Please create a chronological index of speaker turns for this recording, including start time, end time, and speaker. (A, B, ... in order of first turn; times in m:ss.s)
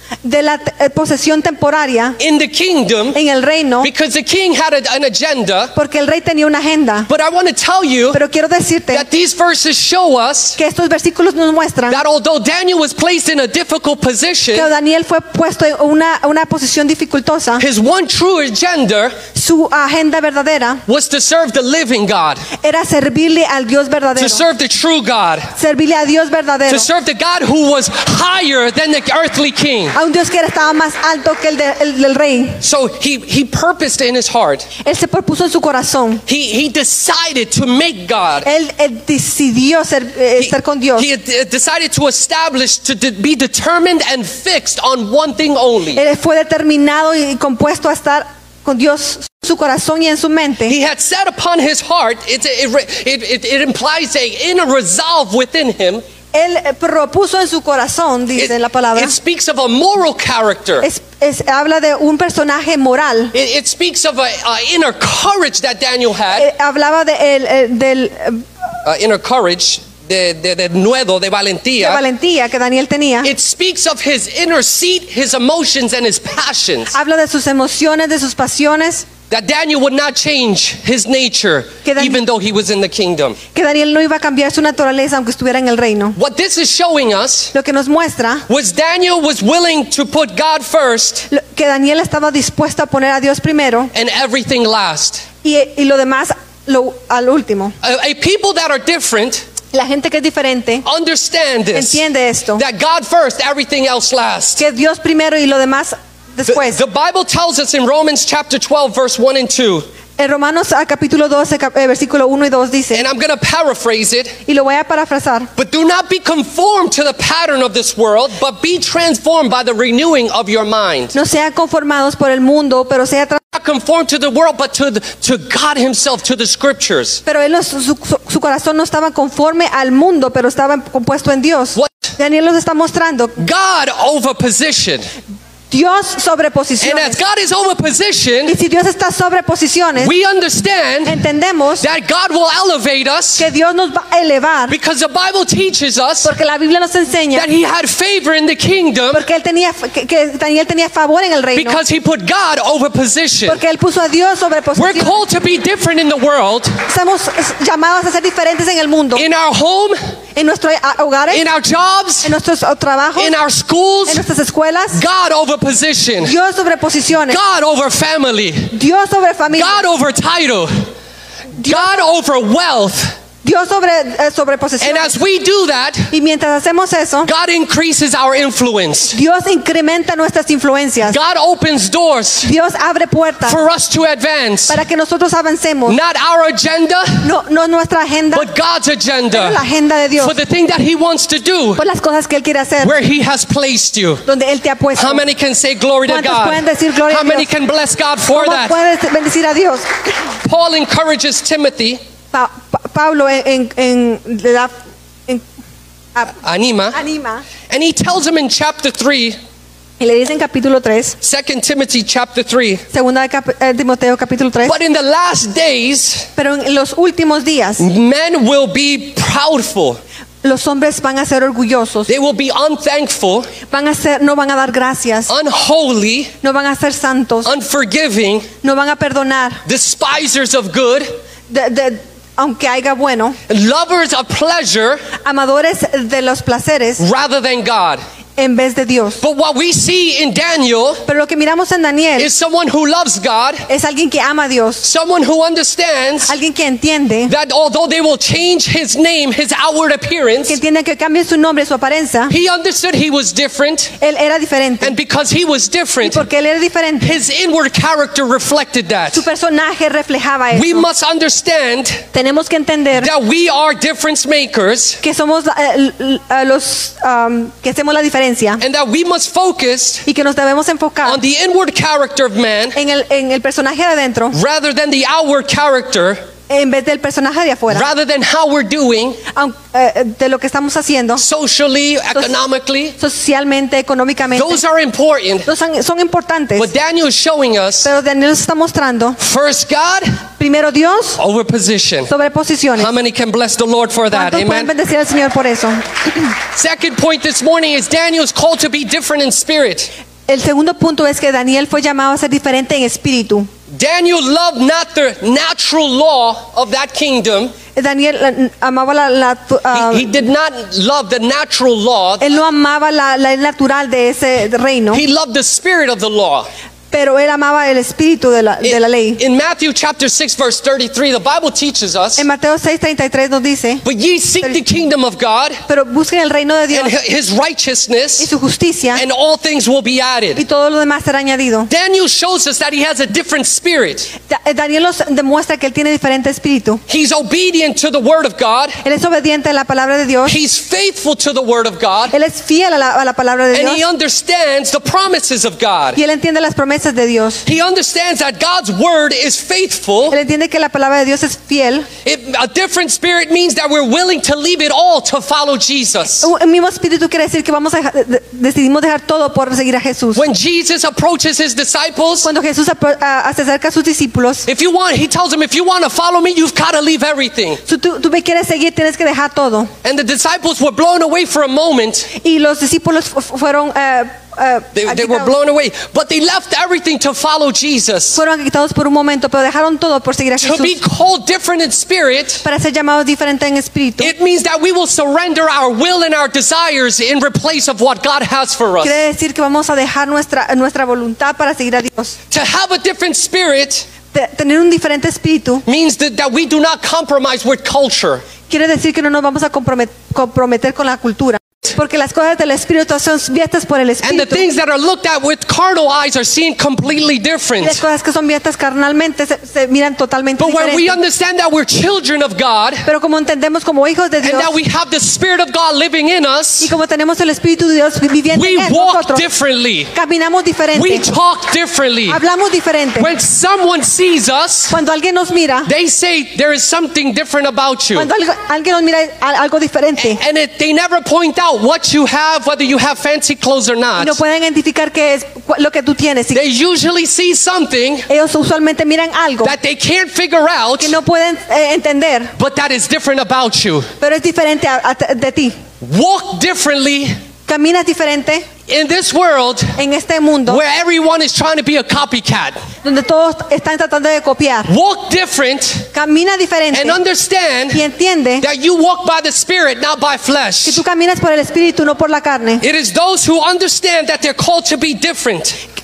0:00.2-0:02.2 A
0:02.2-0:03.2 B
0:03.1-0:03.9 A
0:03.8-0:05.7 B
0:05.7-0:07.1 A
0:07.1-0:08.2 B
0:08.1-0:09.0 A
0:08.9-0:10.6 B
0:10.6-0:12.0 A
0:11.9-0:14.7 B
0:14.5-0:17.6 A
0:17.6-0:19.2 B
0:19.3-0:20.8 A
0:20.8-0:22.4 B
0:22.6-0:24.4 A
0:24.2-0:25.5 B
0:25.6-0:26.9 A
0:26.7-0:30.0 B
0:29.9-0:32.6 A
0:32.6-0:34.7 B
0:34.8-0:36.2 A
0:36.3-0:38.5 B
0:38.4-0:41.1 A
0:40.4-0:46.0 B
0:45.9-0:50.8 A
0:50.7-0:56.0 B
0:56.3-0:59.1 A
0:58.4-1:00.9 B
1:00.8-1:03.3 A
1:03.3-1:06.5 B
1:06.3-1:08.4 A
1:08.8-1:12.0 B
1:11.8-1:13.3 A
1:13.2-1:16.9 B
1:16.9-1:19.1 A
1:19.3-1:23.4 B
1:21.8-1:22.2 A
1:23.5-1:26.2 A
1:26.2-1:27.5 B
1:27.5-1:28.4 A
1:28.5-1:31.3 B
1:31.3-1:33.9 A
1:33.9-1:35.2 B
1:35.4-1:37.8 A
1:37.8-1:39.4 B
1:39.7-1:40.8 A
1:40.8-1:42.0 B
1:41.7-1:42.6 A
1:42.6-1:44.6 B
1:44.6-1:46.8 A
1:46.5-1:49.8 B
1:50.2-1:53.0 A
1:52.9-1:54.4 B
1:54.4-1:55.5 A
1:55.6-2:01.1 B
2:01.1-2:03.4 A
2:03.5-2:07.2 B
2:07.2-2:13.4 A
2:11.7-2:12.1 B
2:13.4-2:15.1 B
2:15.7-2:17.2 A
2:16.8-2:18.6 B
2:18.4-2:20.1 A
2:20.0-2:21.2 B
2:21.0-2:21.8 A
2:21.8-2:23.5 B
2:23.4-2:24.8 A
2:24.7-2:26.3 B
2:26.2-2:27.5 A
2:27.3-2:29.2 B
2:29.1-2:31.8 A
2:31.5-2:33.6 B
2:33.5-2:35.2 A
2:34.8-2:36.8 B
2:36.8-2:39.2 A
2:39.1-2:40.0 B
2:40.3-2:41.5 A
2:41.3-2:42.3 B
2:42.2-2:43.3 A
2:43.2-2:44.3 B
2:44.1-2:45.0 A
2:44.9-2:46.3 B
2:46.2-2:47.4 A
2:47.2-2:48.8 B
2:48.7-2:49.8 A
2:49.5-2:50.9 B
2:51.6-2:52.0 A
2:51.6-2:53.2 B
2:53.4-2:55.2 A
2:54.8-2:56.1 B
2:56.1-2:57.3 A
2:57.2-2:59.2 B
2:59.1-3:01.2 A
3:01.0-3:02.5 B
3:02.4-3:03.6 A
3:03.4-3:04.8 B
3:04.7-3:06.0 A
3:05.8-3:07.3 B
3:07.2-3:08.5 A
3:08.3-3:09.6 B
3:09.3-3:10.4 A
3:10.2-3:11.8 B
3:11.8-3:12.9 A
3:12.8-3:14.2 B
3:14.2-3:15.2 A
3:14.9-3:18.8 B
3:16.0-3:17.5 A
3:18.3-3:20.1 A
3:20.4-3:22.0 B
3:22.3-3:25.4 A
3:26.4-3:27.0 B
3:26.9-3:27.4 A
3:27.7-3:29.4 B
3:30.0-3:31.2 A
3:31.2-3:32.8 B
3:32.9-3:34.8 A
3:34.6-3:36.3 B
3:36.4-3:37.9 A
3:37.8-3:40.0 B
3:40.4-3:42.1 A
3:42.1-3:43.5 B
3:43.7-3:45.3 A
3:45.3-3:46.3 B
3:46.4-3:47.5 A
3:47.4-3:48.5 B
3:48.6-3:49.6 A
3:49.6-3:51.1 B
3:51.5-3:53.4 A
3:53.5-3:55.1 B
3:55.2-3:57.0 A
3:57.0-3:58.0 B
3:58.4-3:59.2 A
3:59.2-4:01.0 B
4:01.0-4:02.3 A
4:02.2-4:03.7 B
4:03.7-4:04.8 A
4:04.8-4:06.4 B
4:06.3-4:07.3 A
4:07.3-4:10.6 B
4:10.5-4:12.3 A
4:12.3-4:13.9 B
4:14.0-4:15.0 A
4:14.8-4:16.2 B
4:16.0-4:17.2 A
4:17.0-4:19.2 B
4:19.1-4:20.8 A
4:20.5-4:22.0 B
4:22.1-4:23.1 A
4:23.0-4:25.0 B
4:25.0-4:28.6 A
4:28.6-4:30.0 B
4:30.0-4:31.2 A
4:31.0-4:32.8 B
4:32.7-4:34.4 A
4:34.3-4:36.2 B
4:36.5-4:37.9 A
4:37.7-4:39.2 B
4:39.3-4:41.2 A
4:41.2-4:43.0 B
4:43.0-4:44.6 A
4:44.3-4:45.5 B
4:45.4-4:46.7 A
4:46.6-4:47.9 B
4:47.8-4:49.2 A
4:49.2-4:50.2 B
4:50.4-4:51.2 A
4:51.2-4:52.1 B
4:52.1-4:52.9 A
4:52.8-4:54.7 B
4:54.1-4:56.3 A
4:56.5-4:59.9 B
5:00.3-5:03.5 A
5:03.7-5:07.5 B
5:07.8-5:10.1 A
5:09.7-5:12.3 B
5:12.2-5:15.0 A
5:14.9-5:16.5 B
5:16.9-5:19.2 A
5:18.6-5:22.2 B
5:22.2-5:23.8 A
5:23.8-5:25.6 B
5:25.7-5:26.9 A
5:26.7-5:28.3 B
5:28.2-5:29.0 A
5:28.9-5:30.4 B
5:30.4-5:31.7 A
5:31.7-5:34.1 B
5:34.3-5:36.8 A
5:36.9-5:38.8 B
5:38.8-5:40.4 A
5:40.2-5:42.1 B
5:42.1-5:43.8 A
5:43.5-5:46.0 B
5:45.9-5:47.4 A
5:47.4-5:50.2 B
5:50.1-5:51.9 A
5:52.0-5:56.3 B
5:56.2-6:00.2 A
6:00.1-6:02.3 B
6:02.2-6:04.5 A
6:04.5-6:07.6 B
6:07.6-6:09.7 A
6:09.8-6:12.1 B
6:12.2-6:15.3 A
6:14.7-6:18.2 B
6:18.1-6:20.8 A
6:20.4-6:22.4 B
6:22.4-6:24.1 A
6:24.0-6:28.9 B
6:28.8-6:32.2 A
6:32.3-6:33.9 B
6:34.1-6:35.6 A
6:35.6-6:38.2 B
6:38.5-6:44.5 A
6:44.0-6:47.8 B
6:47.6-6:51.0 A
6:50.4-6:52.9 B
6:52.8-6:54.5 A
6:54.2-6:56.7 B
6:56.6-6:59.3 A
6:58.3-6:59.9 B
6:59.9-7:01.0 A
7:00.7-7:02.2 B
7:02.1-7:03.1 A
7:03.0-7:04.8 B
7:04.7-7:05.7 A
7:05.6-7:08.1 B
7:07.9-7:10.2 A
7:10.0-7:14.2 B
7:14.0-7:16.4 A
7:16.3-7:18.1 B
7:18.1-7:19.5 A
7:19.4-7:21.0 B
7:20.8-7:22.3 A
7:22.4-7:23.9 B
7:24.0-7:25.6 A
7:25.8-7:27.1 B
7:27.5-7:28.5 A
7:28.7-7:29.8 B
7:29.8-7:30.6 A
7:30.5-7:32.6 B
7:32.8-7:34.7 A
7:34.7-7:35.9 B
7:35.9-7:37.0 A
7:36.7-7:37.8 B
7:37.7-7:38.4 A
7:38.4-7:40.8 B
7:40.6-7:42.6 A
7:42.6-7:45.6 B